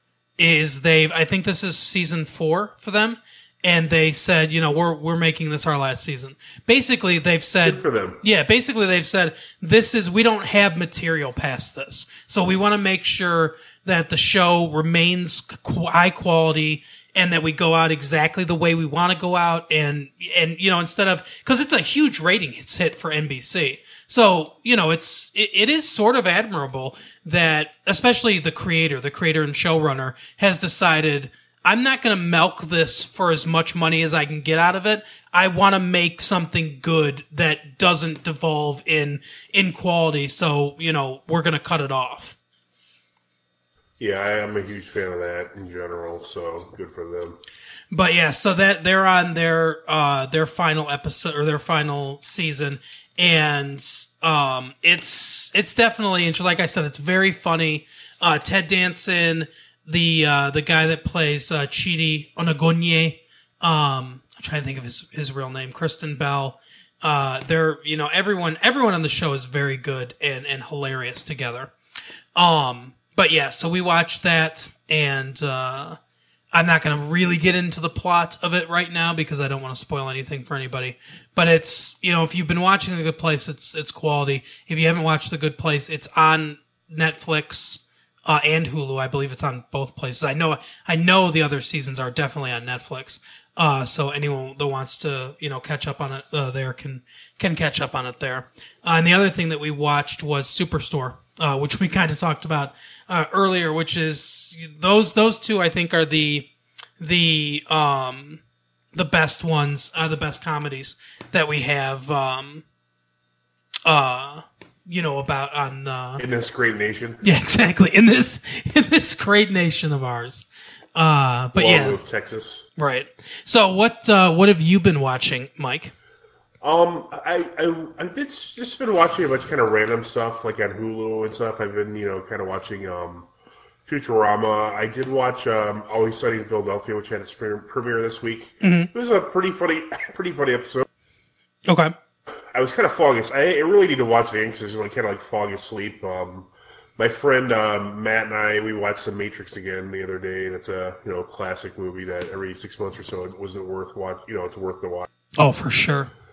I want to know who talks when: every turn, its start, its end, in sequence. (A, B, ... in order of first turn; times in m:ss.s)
0:00.4-0:42.4 A
0:07.6-0:08.2 B
0:44.0-0:47.4 B
0:47.9-1:11.7 A
1:12.4-1:16.0 A
1:16.5-1:46.5 A
1:47.0-1:48.4 A
1:48.9-1:52.6 A
1:53.8-1:56.2 A
1:56.2-1:57.2 B
1:57.2-2:02.0 A
2:01.5-2:02.7 B
2:02.8-2:05.9 A
2:06.6-2:13.3 B
2:13.8-2:20.8 B
2:18.6-2:18.9 A
2:21.7-2:21.9 A
2:22.5-2:35.1 B
2:35.4-2:36.1 A